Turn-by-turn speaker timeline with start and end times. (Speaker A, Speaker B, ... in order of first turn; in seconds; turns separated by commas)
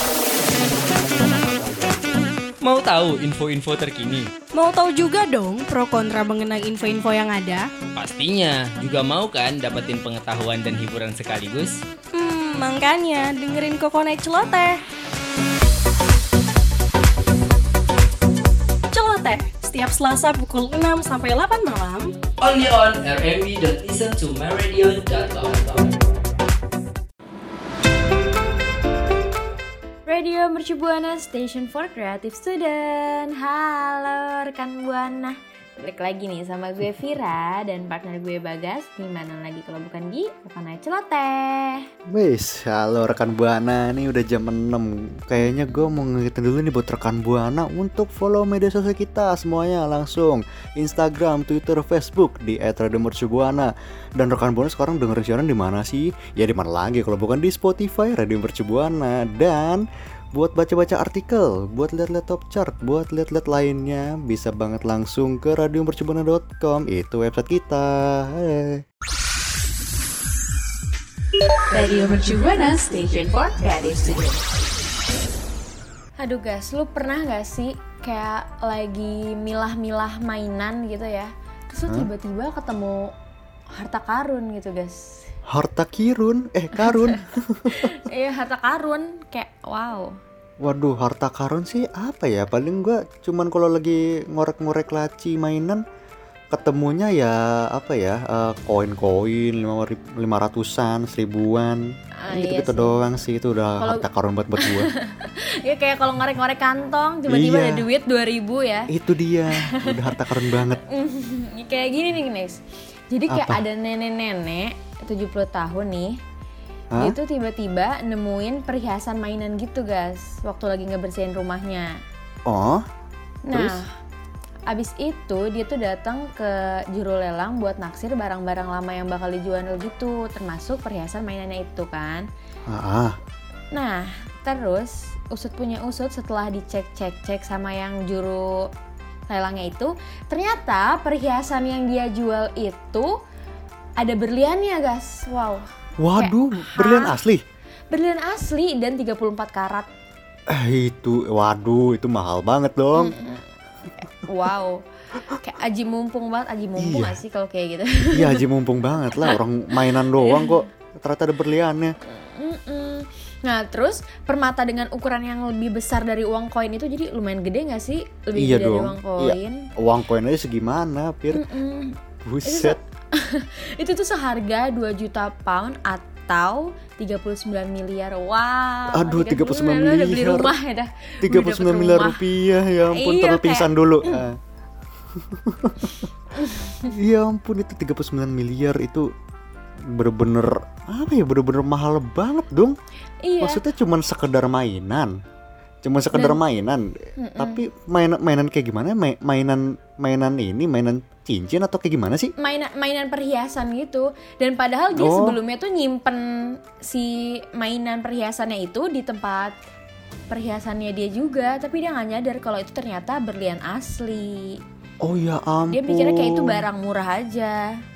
Speaker A: 0.6-2.0, Speaker A: 2.6-4.3, Speaker B: 4.5-7.7, Speaker A: 8.0-11.8, Speaker B: 12.1-14.8, Speaker B: 18.9-22.1, Speaker A: 22.4-25.9, Speaker C: 30.1-41.9, Speaker D: 42.1-68.8, Speaker C: 45.6-45.9, Speaker E: 71.7-74.4, Speaker C: 76.2-83.1, Speaker C: 83.7-85.2, Speaker D: 85.5-88.0, Speaker C: 86.8-87.2, Speaker C: 87.7-90.1, Speaker D: 90.6-95.8, Speaker D: 96.5-104.9, Speaker C: 102.2-103.0, Speaker C: 103.8-104.1, Speaker C: 104.6-108.9, Speaker D: 107.3-107.9, Speaker D: 108.9-110.8, Speaker C: 109.6-110.0, Speaker C: 110.8-116.1, Speaker D: 113.3-113.6, Speaker C: 117.0-121.9, Speaker D: 122.5-122.8, Speaker C: 123.5-123.9, Speaker D: 123.5-123.8, Speaker C: 124.7-132.3, Speaker D: 132.7-133.2, Speaker C: 133.7-138.7, Speaker C: 139.3-143.1, Speaker C: 144.0-147.2, Speaker D: 146.0-147.4, Speaker C: 147.9-149.9, Speaker D: 150.5-153.2, Speaker C: 152.9-154.8, Speaker C: 155.4-158.4, Speaker D: 156.8-157.2, Speaker D: 158.1-161.9, Speaker C: 160.2-160.6, Speaker C: 162.1-169.7, Speaker D: 168.4-171.4, Speaker C: 171.3-182.2, Speaker D: 172.2-172.8, Speaker D: 178.9-180.5, Speaker D: 181.2-184.4, Speaker C: 182.9-184.3, Speaker D: 185.2-186.0, Speaker C: 186.4-186.9, Speaker D: 186.8-189.1, Speaker D: 189.9-192.8, Speaker C: 193.2-193.6, Speaker D: 193.4-195.1, Speaker D: 195.8-202.3, Speaker C: 196.1-196.4, Speaker C: 197.2-197.6, Speaker C: 202.4-209.5, Speaker D: 204.9-205.4, Speaker C: 210.3-214.6, Speaker D: 215.0-216.7, Speaker C: 215.7-217.6